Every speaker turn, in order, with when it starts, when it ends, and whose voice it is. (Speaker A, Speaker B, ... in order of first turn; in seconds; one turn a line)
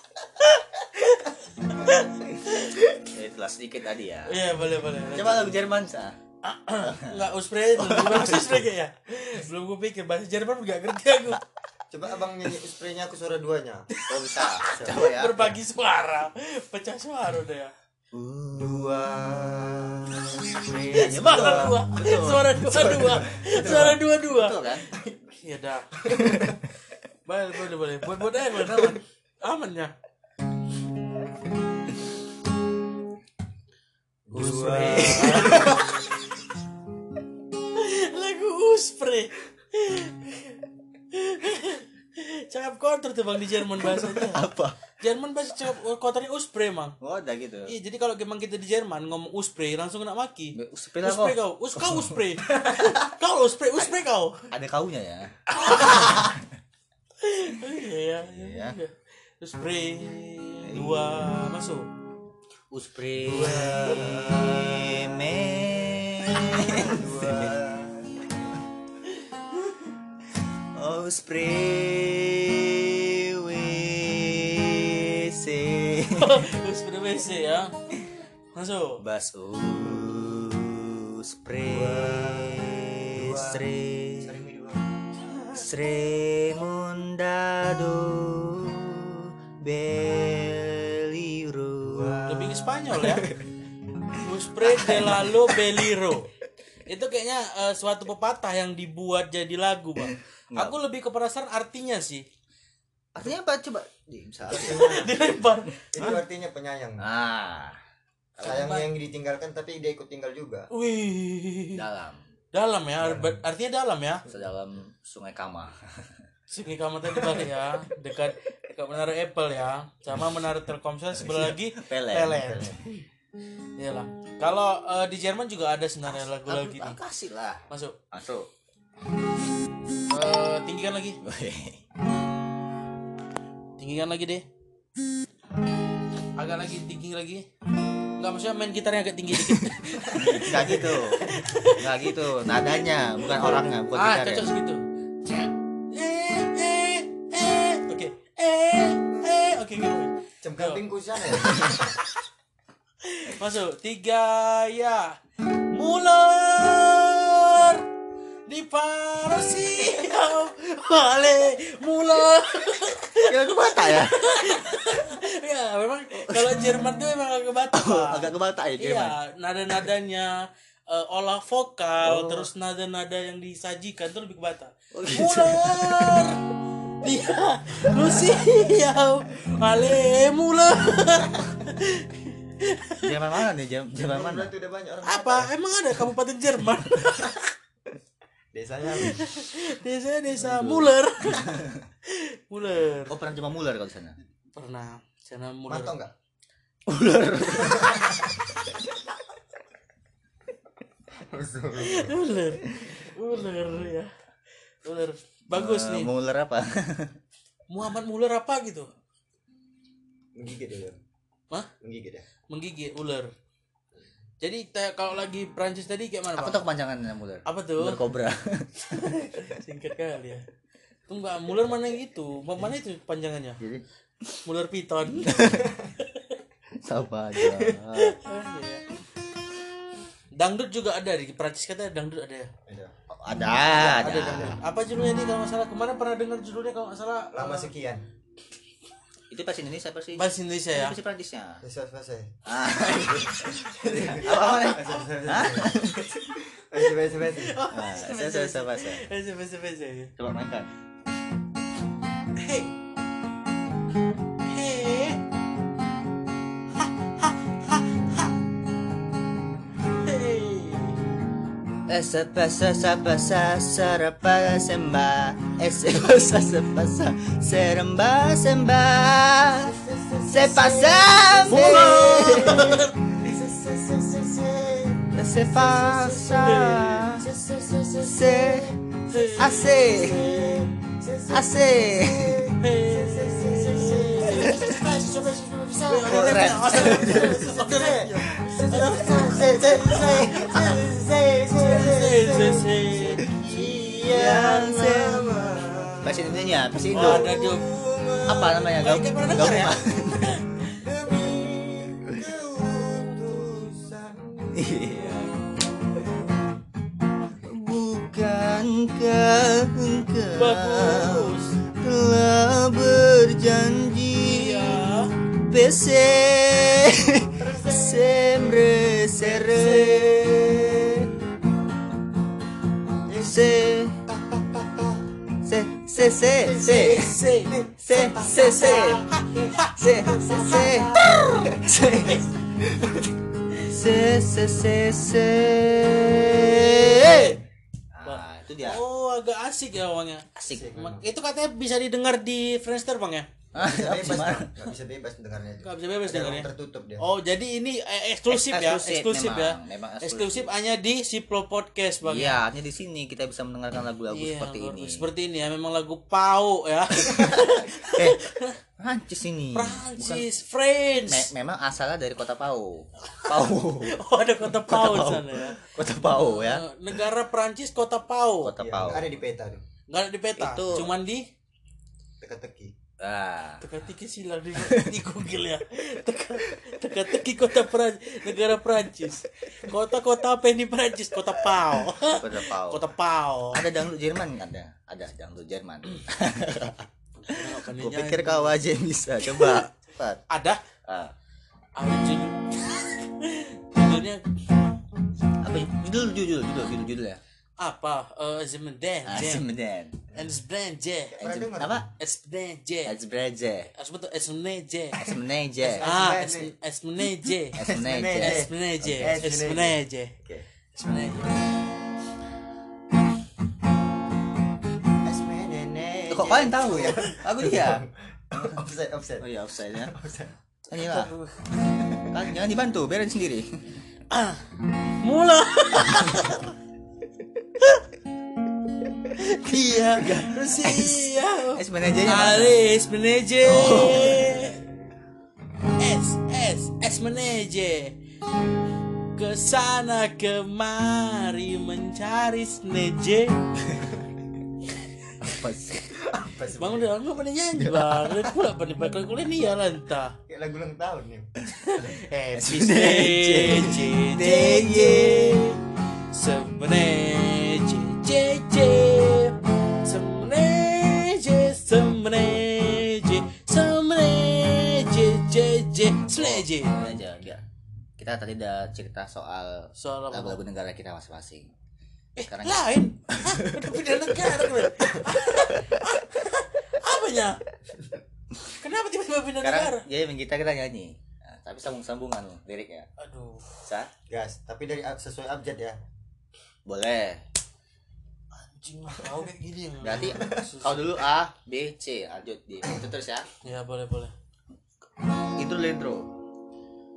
Speaker A: 1.3-2.8
Speaker B: 3.0-4.5
Speaker A: 4.3-5.6
Speaker B: 5.1-6.2
Speaker A: 6.4-11.4
Speaker B: 6.8-8.7
Speaker C: 11.9-13.9
Speaker B: 14.1-15.6
Speaker A: 14.3-17.7
Speaker C: 14.7-15.1
Speaker B: 18.1-19.2
Speaker C: 18.6-21.8
Speaker B: 20.6-24.9
Speaker A: 20.9-25.9
Speaker C: 26.0-26.5
Speaker A: 27.3-29.9
Speaker C: 34.3-35.9
Speaker A: 34.3-35.9
Speaker B: 34.7-35.8
Speaker A: 37.8-40.6
Speaker A: 41.1-44.5
Speaker B: 43.8-44.9
Speaker A: 45.0-47.0
Speaker B: 47.0-47.7
Speaker A: 47.7-54.5
Speaker B: 50.5-52.3
Speaker B: 54.5-56.5
Speaker A: 55.5-56.3
Speaker A: 57.2-61.9
Speaker B: 58.2-58.8
Speaker B: 60.6-61.2
Speaker B: 62.7-67.8
Speaker C: 63.3-65.7
Speaker A: 63.3-64.1
Speaker C: 66.5-68.3
Speaker B: 70.7-76.5
Speaker A: 76.1-77.7
Speaker A: 78.5-79.0
Speaker B: 79.0-84.4
Speaker C: 81.7-83.7
Speaker C: 84.2-84.8
Speaker B: 85.5-92.3
Speaker C: 91.8-92.7
Speaker A: 92.3-93.3
Speaker B: 92.9-93.5
Speaker A: 94.2-96.3
Speaker B: 94.6-95.9
Speaker A: 96.9-102.2
Speaker B: 100.5-100.8
Speaker B: 103.1-105.0
Speaker C: 104.5-105.2
Speaker A: 104.5-106.2
Speaker C: 105.9-107.0
Speaker B: 107.0-107.8
Speaker B: 108.4-108.8
Speaker A: 108.4-108.8
Speaker C: 108.4-110.7
Speaker A: 110.7-111.8
Speaker B: 111.7-112.2
Speaker A: 112.5-114.2
Speaker C: 113.0-113.4
Speaker B: 114.3-116.2
Speaker A: 116.5-122.8
Speaker B: 121.1-122.6
Speaker C: 122.3-122.9
Speaker A: 123.8-127.0
Speaker B: 126.1-128.5
Speaker A: 127.7-128.0
Speaker A: 130.1-131.2
Speaker B: 131.2-131.8
Speaker A: 133.8-134.5
Speaker A: 136.4-137.4
Speaker A: 138.2-150.8
Speaker B: 139.3-144.5
Speaker C: 150.4-151.9
Speaker A: 153.0-155.2
Speaker A: 155.7-157.9
Speaker A: 158.5-176.4
Speaker B: 163.2-164.7
Speaker B: 166.1-166.7
Speaker B: 167.7-169.2
Speaker B: 172.0-172.5
Speaker B: 174.9-176.3
Speaker A: 177.0-183.2
Speaker B: 183.0-184.5
Speaker C: 184.0-185.5
Speaker A: 185.0-187.5
Speaker C: 188.5-189.3
Speaker A: 189.0-193.2
Speaker B: 190.4-191.8
Speaker B: 193.1-194.2
Speaker A: 194.5-195.9
Speaker C: 195.7-196.1
Speaker B: 196.9-198.1
Speaker C: 201.2-202.4
Speaker A: 201.8-204.1
Speaker A: 204.8-206.1
Speaker B: 205.5-207.2
Speaker A: 207.7-208.9
Speaker C: 210.3-211.0
Speaker C: 211.8-212.2
Speaker A: 212.5-213.3
Speaker A: 214.4-216.6
Speaker B: 216.3-218.7
Speaker A: 217.5-218.0
Speaker A: 218.9-220.4
Speaker A: 221.1-223.6
Speaker B: 223.6-224.4
Speaker A: 224.4-225.4
Speaker B: 225.1-225.8
Speaker A: 226.0-226.3
Speaker B: 226.8-228.2
Speaker C: 227.5-227.8
Speaker A: 228.0-228.9
Speaker A: 230.3-232.5
Speaker C: 232.7-232.9
Speaker B: 233.1-234.6
Speaker A: 233.7-237.7
Speaker C: 237.3-238.0
Speaker B: 239.3-241.6
Speaker A: 240.2-241.0
Speaker C: 241.6-247.6
Speaker B: 242.5-246.1
Speaker A: 244.3-245.0
Speaker A: 247.3-250.1
Speaker B: 247.7-249.1
Speaker B: 250.2-250.7
Speaker A: 252.4-252.7
Speaker A: 254.5-255.2
Speaker A: 256.8-258.3
Speaker A: 260.0-261.0
Speaker B: 261.9-269.8
Speaker C: 269.6-299.1
Speaker B: 270.3-272.8
Speaker A: 271.5-272.9
Speaker B: 275.1-277.3
Speaker A: 276.4-277.0
Speaker B: 278.0-278.7
Speaker A: 279.1-280.7
Speaker B: 279.4-280.4
Speaker B: 281.3-282.5
Speaker A: 282.6-284.6
Speaker B: 284.3-284.7
Speaker A: 285.9-290.9
Speaker B: 286.1-287.5
Speaker A: 291.5-293.6
Speaker B: 294.0-297.3
Speaker A: 296.9-297.7
Speaker B: 298.3-300.4
Speaker A: 298.7-300.8
Speaker C: 300.8-305.2
Speaker B: 304.5-305.3
Speaker B: 307.4-321.1
Speaker A: 310.4-311.6
Speaker A: 314.2-315.1
Speaker C: 317.4-320.6
Speaker A: 319.4-320.1
Speaker C: 323.1-323.5
Speaker B: 323.2-324.0
Speaker C: 324.1-325.1
Speaker B: 325.4-327.1
Speaker C: 326.2-333.1
Speaker A: 326.6-327.5
Speaker B: 327.8-329.1
Speaker A: 328.9-329.7
Speaker B: 329.8-331.6
Speaker A: 332.0-332.3
Speaker B: 333.6-337.4
Speaker A: 336.6-337.4
Speaker C: 336.8-337.3
Speaker B: 337.9-338.8
Speaker A: 338.1-343.3
Speaker B: 340.4-340.7
Speaker C: 340.5-341.1
Speaker B: 343.5-344.5
Speaker C: 343.6-347.1
Speaker A: 345.6-352.4
Speaker B: 348.3-350.5
Speaker B: 352.0-355.1
Speaker A: 354.1-358.6
Speaker B: 357.1-358.2
Speaker B: 358.8-360.3
Speaker A: 359.5-361.3
Speaker B: 361.1-366.7
Speaker A: 363.1-368.5
Speaker B: 368.4-369.2
Speaker C: 368.6-369.6
Speaker A: 369.9-371.3
Speaker B: 370.4-370.9
Speaker C: 372.2-372.7
Speaker B: 373.0-373.6
Speaker A: 373.6-383.6
Speaker B: 374.6-375.0
Speaker B: 382.0-382.9
Speaker B: 383.5-390.2
Speaker A: 387.2-388.6
Speaker A: 389.2-389.7
Speaker A: 390.3-390.6
Speaker B: 390.9-391.1
Speaker A: 391.8-394.2
Speaker B: 395.4-397.2
Speaker A: 397.6-399.5
Speaker B: 399.1-400.0
Speaker A: 400.1-401.2
Speaker B: 401.2-401.9
Speaker C: 401.2-401.9
Speaker A: 402.0-402.9
Speaker B: 402.9-403.7
Speaker A: 403.8-405.0
Speaker B: 404.9-405.9
Speaker C: 405.6-406.5
Speaker A: 405.8-407.6
Speaker B: 407.5-409.3
Speaker C: 407.6-409.8
Speaker A: 408.2-410.2
Speaker B: 410.3-411.2
Speaker A: 410.8-411.4
Speaker C: 415.0-419.3
Speaker B: 416.1-418.6
Speaker B: 419.2-419.9
Speaker C: 419.8-422.1
Speaker B: 420.7-421.1
Speaker B: 422.1-423.6
Speaker A: 424.1-424.5
Speaker A: 425.0-426.5
Speaker A: 429.2-434.6
Speaker B: 429.9-432.6
Speaker B: 433.4-434.4
Speaker A: 435.8-437.9
Speaker A: 439.1-443.4
Speaker B: 445.2-446.0
Speaker C: 446.0-446.9
Speaker A: 446.6-450.1
Speaker B: 447.6-448.4
Speaker C: 450.3-451.3
Speaker A: 451.5-466.8
Speaker B: 451.9-455.5
Speaker B: 466.1-467.4
Speaker B: 468.0-471.5
Speaker A: 469.8-470.4
Speaker A: 472.2-477.4
Speaker B: 472.2-473.7
Speaker A: 478.5-479.9
Speaker B: 479.4-482.9
Speaker A: 483.0-483.6
Speaker B: 483.6-483.9
Speaker C: 484.1-485.8
Speaker B: 486.7-487.2
Speaker A: 488.3-490.9
Speaker B: 489.8-493.3
Speaker C: 490.1-490.5
Speaker A: 493.4-494.1
Speaker B: 495.4-496.1